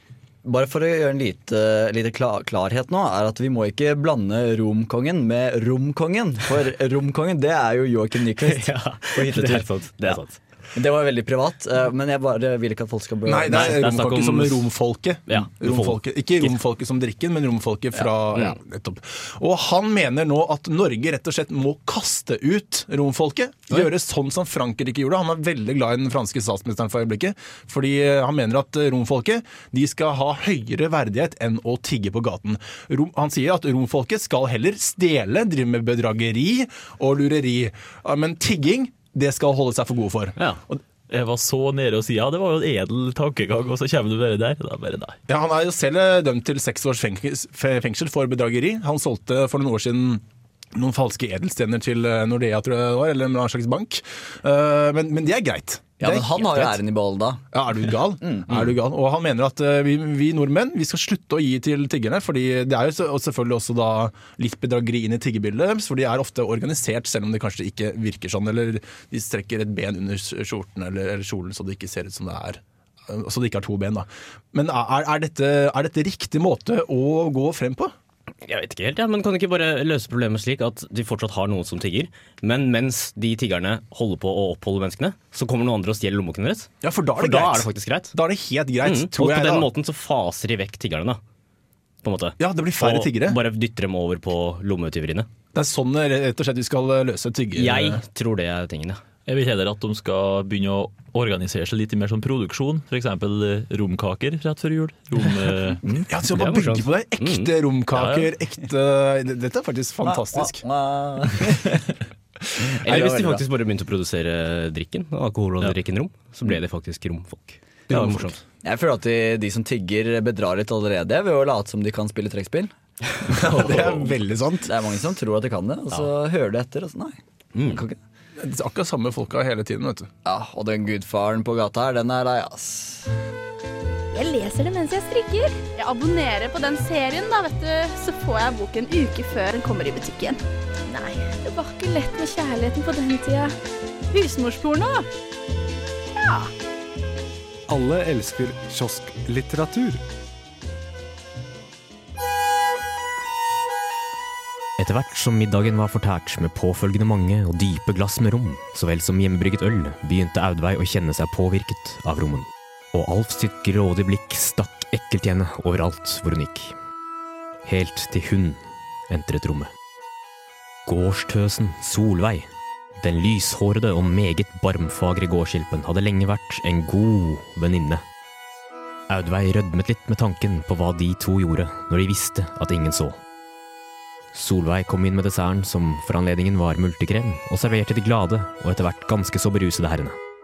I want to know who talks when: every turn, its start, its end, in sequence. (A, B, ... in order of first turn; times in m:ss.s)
0:00.4-0:10.2 A
0:08.4-0:10.4 B
0:10.7-0:13.8 A
0:13.2-0:40.8 C
0:13.4-0:14.7 B
0:15.3-0:16.5 B
0:41.1-0:45.2 D
0:45.3-0:56.8 C
0:56.0-0:57.4 A
0:57.5-1:17.9 C
1:18.4-1:28.1 B
1:26.8-1:29.7 C
1:28.8-1:31.2 B
1:32.0-1:35.3 B
1:32.4-1:33.4 C
1:35.5-1:38.0 C
1:37.5-1:39.0 B
1:39.2-1:46.0 D
1:46.1-1:50.6 C
1:46.3-1:47.5 B
1:47.9-1:48.3 D
1:50.0-1:51.8 A
1:52.6-1:53.4 C
1:52.8-1:58.4 B
1:58.6-2:02.7 A
2:03.3-2:04.7 C
2:03.4-2:04.0 B
2:03.4-2:03.9 A
2:04.7-2:08.0 A
2:07.5-2:07.8 B
2:08.4-2:10.1 C
2:10.2-2:13.1 A
2:14.1-2:23.5 E
2:24.1-2:25.0 E
2:26.2-2:26.5 E
2:27.7-2:30.0 F
2:34.8-2:46.7 G
2:47.6-2:49.7 G
2:50.8-2:58.0 G
2:59.1-3:03.2 G
3:04.3-3:10.2 G